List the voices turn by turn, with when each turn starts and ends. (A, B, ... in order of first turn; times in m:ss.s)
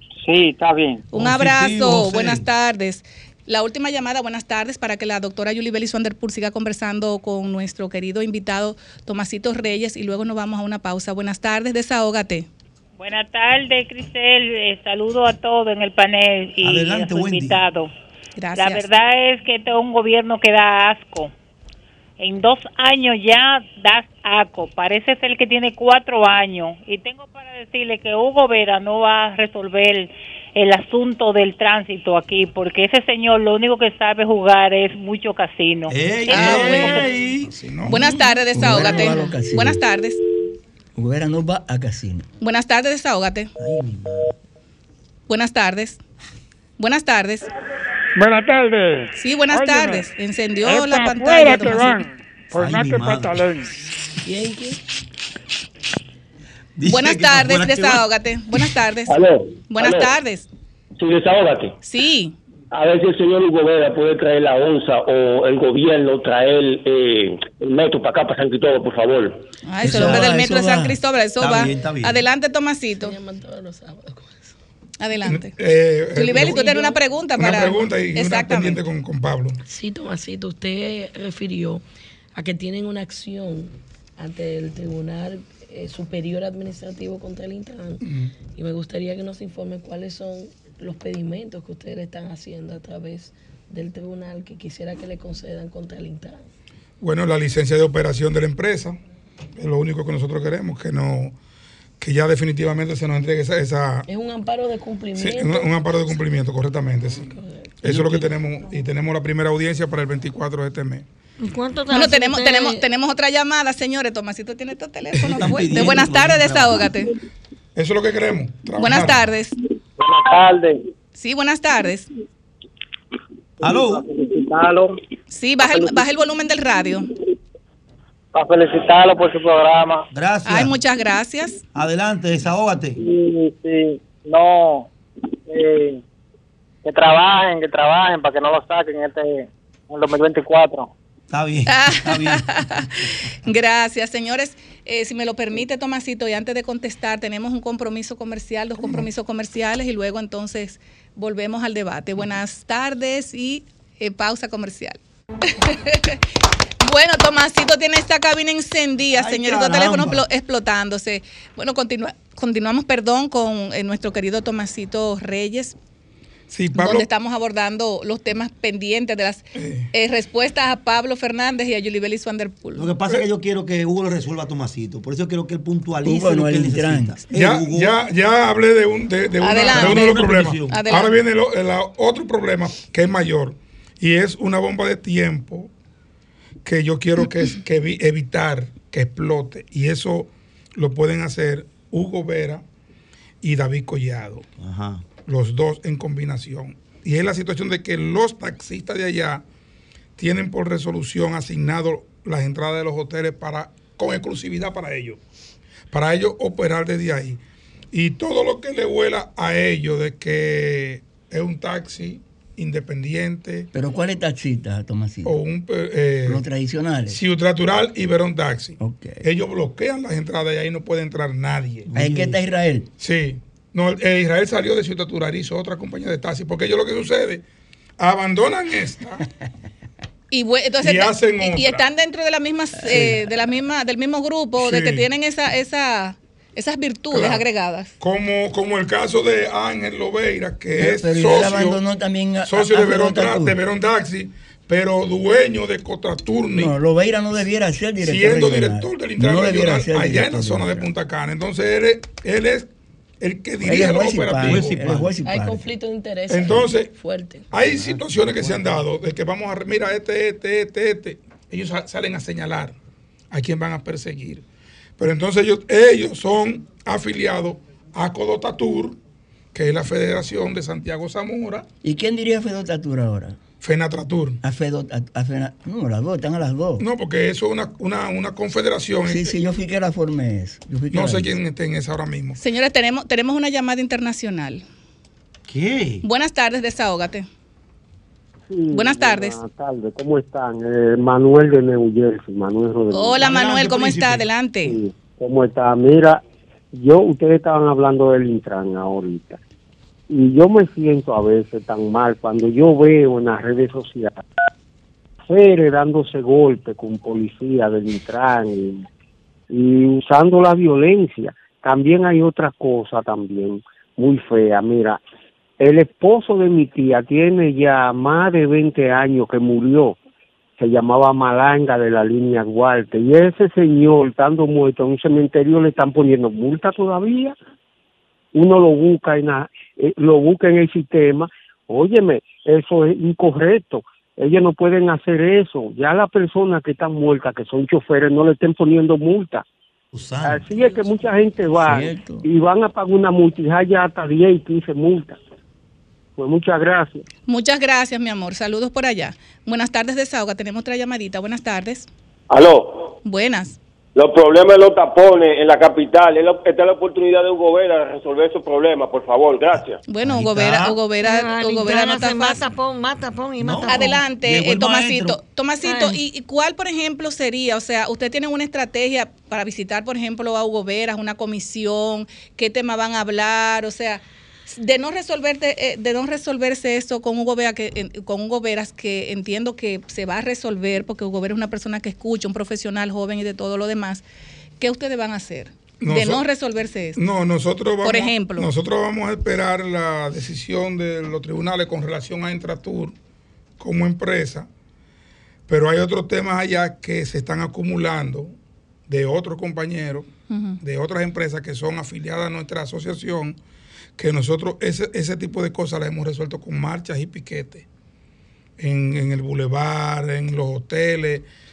0:00.2-0:01.1 A
0:01.1-0:02.4 B
0:01.1-0:12.5 C
0:13.0-0:17.9 A
0:16.6-0:17.6 B
0:18.4-0:18.8 C
0:18.6-0:21.3 A
0:22.2-0:37.1 A
0:35.9-0:37.5 B
0:36.3-0:37.1 C
0:37.6-0:38.0 D
0:37.8-0:39.8 E
0:37.9-0:40.2 C
0:41.0-0:42.2 E
0:42.4-0:43.5 C
0:43.6-0:44.4 B
0:45.3-0:46.0 C
0:46.8-0:47.4 C
0:48.2-0:50.1 F
0:49.2-0:52.0 C
0:50.6-0:53.7 F
0:52.6-0:53.5 B
0:54.2-0:54.8 G
0:56.8-0:58.0 B
0:56.9-0:59.2 C
0:59.1-0:59.4 H
0:59.7-1:00.5 C
1:01.0-1:01.7 H
1:01.8-1:02.4 C
1:02.7-1:09.3 H
1:09.7-1:13.2 C
1:09.8-1:11.0 E
1:09.8-1:10.3 B
1:11.4-1:12.3 B
1:13.0-1:14.5 G
1:15.0-1:15.5 C
1:15.2-1:16.7 D
1:16.2-1:18.8 C
1:16.3-1:17.0 G
1:17.4-1:19.6 D
1:19.7-1:21.8 G
1:22.4-1:36.4 G
1:28.0-1:28.3 D
1:37.0-1:39.0 D
1:39.6-1:41.4 D
1:42.0-1:44.1 D
1:44.0-1:46.2 G
1:45.2-1:51.1 D
1:47.1-1:47.8 G
1:47.8-1:48.3 B
1:51.4-1:52.9 I
1:51.9-1:57.1 C
1:55.2-1:56.9 B
1:55.4-1:55.9 D
1:57.8-1:59.3 D
1:58.8-1:59.6 C
2:00.0-2:00.8 J
2:01.2-2:02.1 C
2:03.6-2:04.1 B
2:03.6-2:05.0 J
2:05.3-2:07.1 C
2:05.6-2:06.0 J
2:08.3-2:10.0 J
2:10.1-2:10.8 B
2:10.4-2:11.6 C
2:11.7-2:13.0 B
2:13.0-2:14.9 J
2:15.5-2:16.0 J
2:16.8-2:20.9 J
2:21.3-2:22.6 B
2:21.7-2:36.2 C
2:36.8-2:45.8 C
2:39.1-2:40.2 B
2:46.5-2:47.1 D
2:46.7-2:53.2 C
2:49.6-2:49.9 D
2:52.8-2:58.0 B
2:56.0-2:57.2 E
2:57.3-3:05.7 D
2:59.4-3:01.1 C
2:59.7-3:00.9 B
3:06.6-3:12.6 D
3:13.4-3:14.5 D
3:14.6-3:15.1 B
3:15.2-3:19.4 D
3:20.2-3:25.2 D
3:25.9-3:27.4 D
3:27.9-3:33.7 D
3:33.7-3:35.4 E
3:35.2-3:36.4 D
3:36.2-3:37.2 E
3:37.1-3:41.9 D
3:38.8-3:39.2 E
3:41.9-3:42.4 B
3:41.9-3:42.9 E
3:43.0-3:47.4 D
3:48.0-3:49.2 D
3:50.3-3:57.9 C
3:50.8-3:51.8 D
3:54.6-3:55.0 D
3:57.1-3:57.4 D
3:58.0-4:01.8 D
4:00.8-4:03.6 E
4:02.5-4:06.7 D
4:06.5-4:10.9 E
4:08.0-4:12.7 D
4:13.2-4:14.8 D
4:13.6-4:15.6 E
4:14.4-4:15.2 B
4:15.2-4:17.5 G
4:16.3-4:16.9 D
4:17.5-4:22.8 D
4:17.6-4:18.9 B
4:23.3-4:24.4 D
4:25.0-4:29.0 D
4:29.5-4:31.7 D
4:31.8-4:33.4 E
4:33.6-4:34.4 D
4:34.4-4:36.8 E
4:36.8-4:39.3 D
4:39.0-4:41.4 E
4:40.9-4:42.4 D
4:42.4-4:44.6 C
4:45.5-4:46.0 B
4:46.0-4:47.3 C
4:48.5-4:53.2 K
4:48.7-4:49.4 C
4:52.9-4:54.8 C
4:53.2-4:54.3 B
4:54.6-4:56.2 K
4:56.7-4:59.4 K
5:00.1-5:04.2 K
5:05.3-5:08.9 K
5:09.5-5:15.0 K
5:15.6-5:20.0 K
5:20.6-5:27.4 K
5:28.3-5:39.4 K
5:39.9-5:40.5 B
5:40.2-5:45.2 K
5:41.6-5:42.2 E
5:46.2-5:47.0 K
5:47.3-5:51.9 C
5:52.3-5:52.9 L
5:53.0-5:53.6 C
5:54.0-5:59.8 L
5:59.9-6:02.4 C
6:00.0-6:00.8 B
6:01.0-6:04.0 I
6:03.4-6:05.2 B
6:03.7-6:24.0 C
6:05.6-6:06.0 I
6:24.6-6:27.0 C
6:25.8-6:26.2 D
6:27.0-6:33.0 D
6:27.8-6:28.5 C
6:33.6-6:34.5 D
6:35.5-6:38.3 D
6:38.9-6:40.1 D
6:40.3-6:40.6 C
6:40.6-6:43.4 D
6:44.0-6:47.6 D
6:48.6-6:51.3 D